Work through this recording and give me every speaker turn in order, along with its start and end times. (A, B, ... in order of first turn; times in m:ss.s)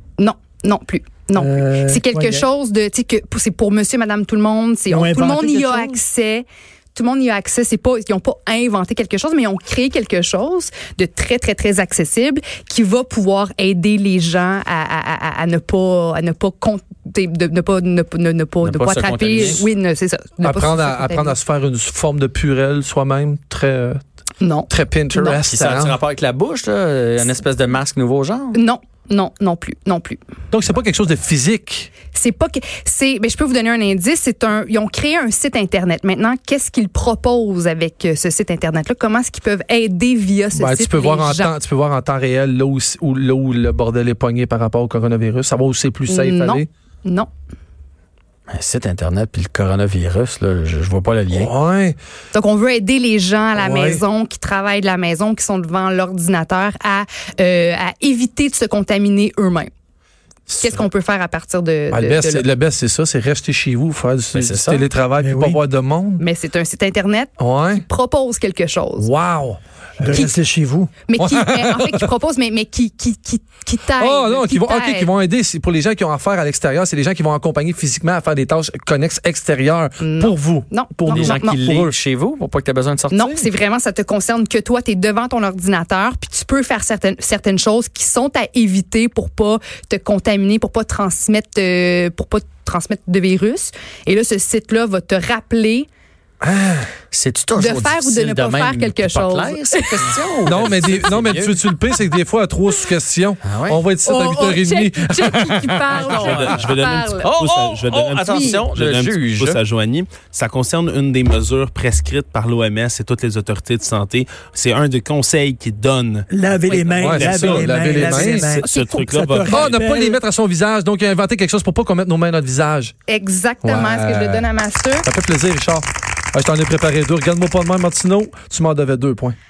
0:00.2-0:21.4 A
0:01.4-0:02.5 B
0:04.9-0:06.0 B
0:18.6-0:19.7 C
0:20.4-0:24.0 D
0:24.4-0:25.5 A
0:24.7-0:26.0 D
0:25.5-0:28.6 C
0:28.5-0:30.2 A
0:30.5-0:31.9 D
0:32.1-0:41.5 A
0:40.5-0:46.7 D
0:46.1-0:47.3 A
0:48.5-0:51.5 C
0:51.3-0:52.0 D
0:52.3-0:59.7 A
0:53.6-0:54.0 D
1:00.6-1:02.5 A
1:01.9-1:06.2 D
1:04.3-1:04.9 C
1:05.2-1:05.6 B
1:06.2-1:09.1 A
1:07.4-1:07.8 D
1:09.0-1:10.2 D
1:10.0-1:10.9 B
1:11.1-1:15.1 A
1:11.2-1:12.1 D
1:14.0-1:21.9 D
1:20.0-1:21.6 A
1:21.1-1:23.5 C
1:23.1-1:35.9 A
1:36.4-1:36.9 D
1:37.1-1:41.6 C
1:37.6-1:40.0 A
1:40.5-1:46.1 D
1:43.4-1:43.8 C
1:44.0-1:47.3 A
1:45.9-1:46.6 C
1:46.1-1:59.7 E
1:47.2-1:49.6 C
1:56.3-2:00.2 B
1:57.0-1:58.5 D
1:59.4-2:02.9 D
2:03.1-2:05.0 A
2:03.6-2:04.5 D
2:05.0-2:09.4 D